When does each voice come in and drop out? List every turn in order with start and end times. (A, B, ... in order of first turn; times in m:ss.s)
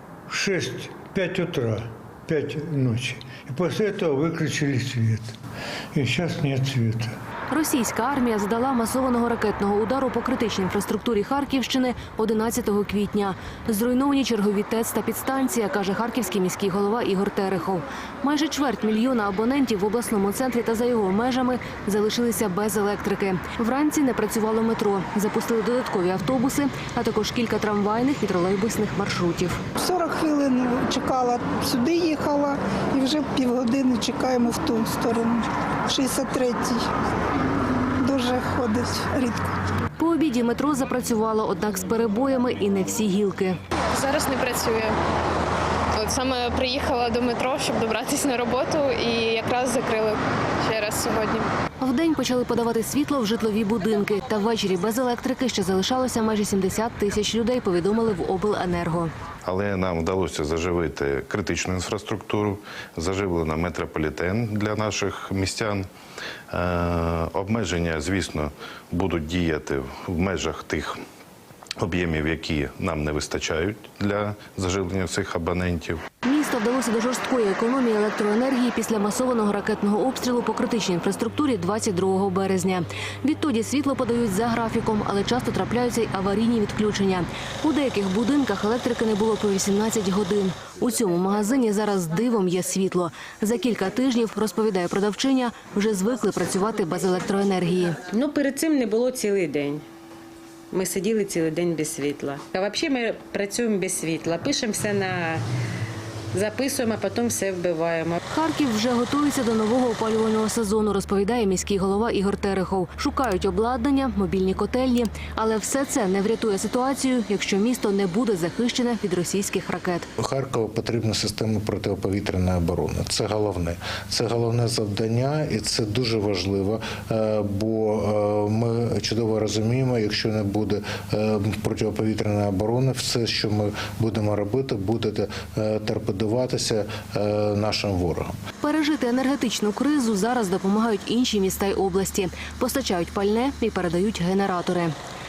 0:00.3-0:05.4 A
0:05.9-0:07.2 A
0:07.5-0:29.6 B
0:29.8-0:36.9 C
0:37.9-0:39.6 C
0:40.0-0:43.6 B
0:44.0-0:45.0 D
0:46.0-0:51.5 D
0:51.8-0:59.1 B
0:59.4-1:05.9 E
1:06.5-1:11.0 E
1:11.8-1:16.0 E
1:16.3-1:38.0 B
1:38.1-1:39.8 F
1:40.7-1:45.4 F
1:46.3-1:48.2 F
1:48.3-2:00.1 B
2:00.2-2:18.3 G
2:18.6-2:24.9 B